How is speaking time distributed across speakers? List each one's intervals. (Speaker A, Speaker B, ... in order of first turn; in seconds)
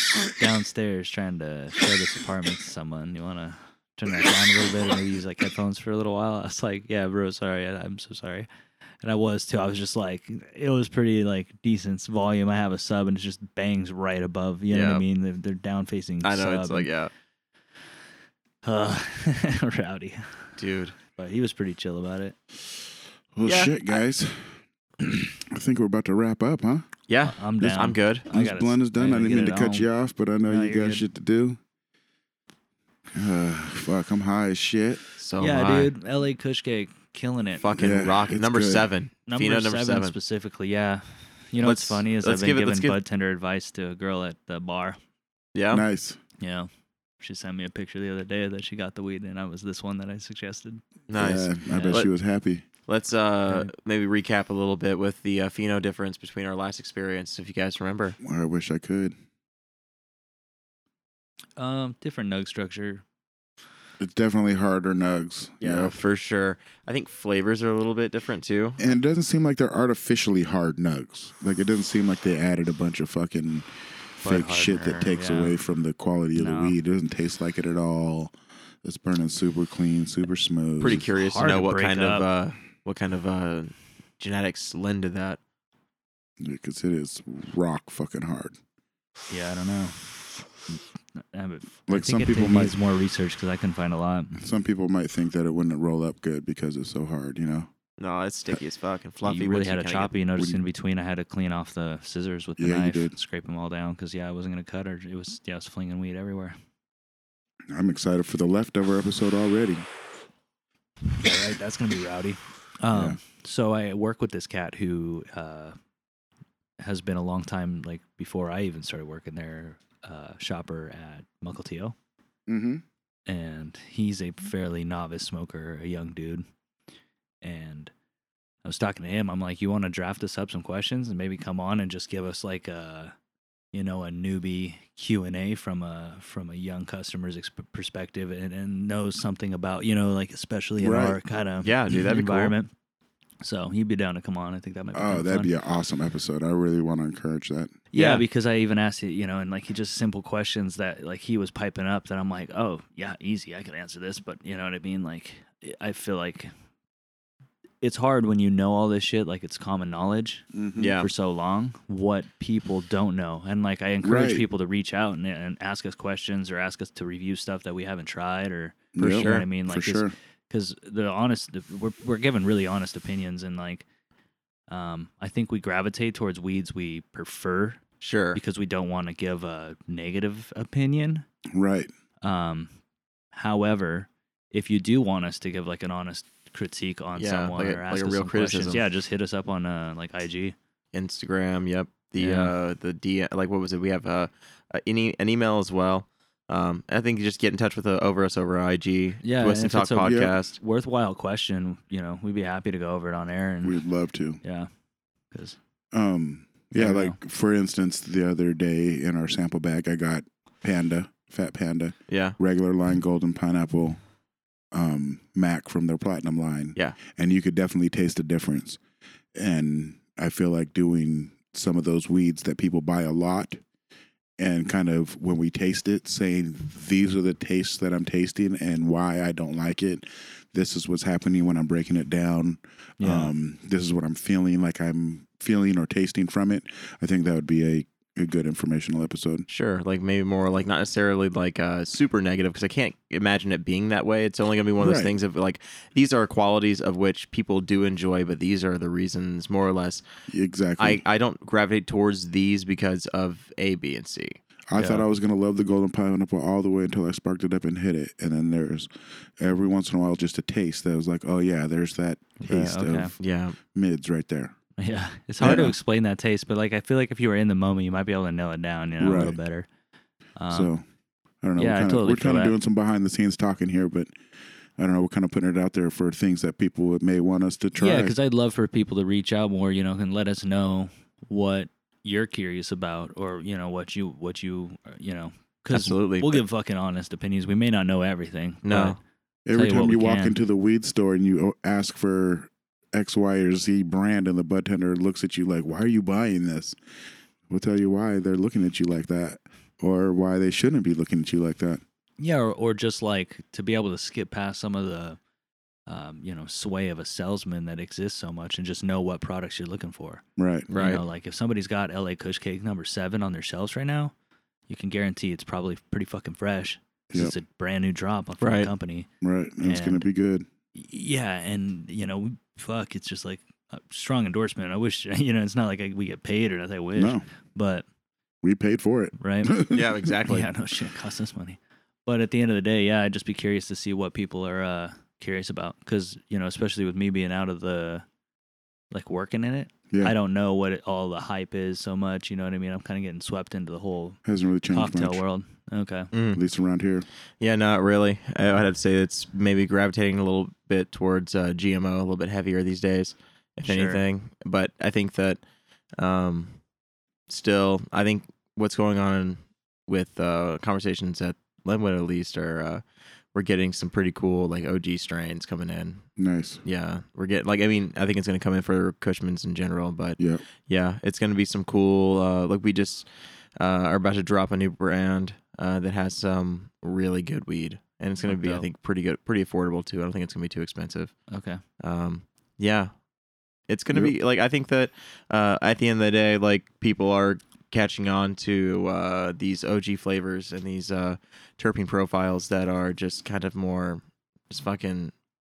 Speaker A: 0.3-8.5, 9.0-16.9, 18.6-20.6, 21.1-22.4, 27.2-29.9, 30.4-31.0, 35.4-37.7, 39.3-45.0, 46.4-50.8, 51.7-52.0, 53.5-53.7, 61.6-63.0, 74.2-75.1, 76.3-76.8, 81.2-82.3, 89.3-94.4, 99.2-106.5, 111.2-115.8, 116.8-121.9, 123.3-126.4, 127.4-127.9, 128.6-133.1, 133.7-142.7, 143.4-145.5, 147.9-156.5, 157.8-160.4, 161.0-173.8, 174.7-177.8, 178.3-181.2, 182.2-182.7, 183.3-190.6, 192.2-192.5, 199.2-203.8, 204.4-204.7, 205.3-205.6, 206.8-207.2, 233.0-233.3, 254.8-255.1, 262.4-263.1, 264.8-269.7, 270.4-270.7, 271.6-272.6, 277.7-289.0, 289.5-290.4, 302.2-305.2, 305.9-314.1, 314.7-319.1, 319.6-320.0, 320.7-327.8, 329.2-329.6, 330.2-338.0, 338.9-346.1, 353.6-354.0, 378.2-378.6, 381.3-381.6
Speaker B: 14.7-15.0, 16.2-17.1, 20.6-20.9, 23.4-23.7, 27.1-28.2, 35.2-35.9, 37.6-40.1, 41.6-43.0, 45.5-45.8, 51.1-52.1, 52.9-58.1, 65.6-68.8, 74.7-75.5, 80.8-85.4, 98.0-100.1, 141.6-142.5, 147.9-148.2, 160.8-161.1, 169.1-169.4, 178.0-178.4, 187.2-188.8, 190.9-200.6, 212.1-212.3, 239.5-250.0, 250.8-254.4, 263.2-263.6, 285.7-286.4, 288.6-289.0, 310.7-311.0, 318.4-318.7, 329.7-330.5, 346.1-346.4, 347.4-355.4, 356.0-356.6, 357.3-362.8, 363.3-366.1, 366.6-381.1, 381.8-382.9, 383.7-395.1
Speaker C: 23.3-26.9, 27.6-31.6, 33.1-35.0, 37.8-38.9, 45.7-46.2, 51.2-52.6, 58.2-59.1, 64.0-65.9, 68.8-81.0, 86.4-88.5, 91.9-92.7, 94.4-97.7, 102.6-103.1, 107.7-109.9, 112.9-113.2, 122.5-122.8, 140.8-141.2, 144.9-147.7, 160.5-160.9, 164.0-164.4, 168.9-170.1, 181.5-181.9, 200.0-200.3, 203.6-204.4, 205.9-214.0, 214.7-218.8, 219.3-223.6, 224.4-239.4, 244.8-245.1, 250.3-251.0, 254.7-263.1, 263.7-264.5, 265.4-265.7, 269.0-269.4, 270.5-270.8, 271.4-274.1, 274.8-278.1, 289.4-296.8, 297.5-301.8, 310.4-310.7, 317.1-317.3, 319.2-320.4, 326.9-327.2, 328.4-330.0, 339.9-340.1, 344.2-345.2, 346.3-347.1, 366.2-366.6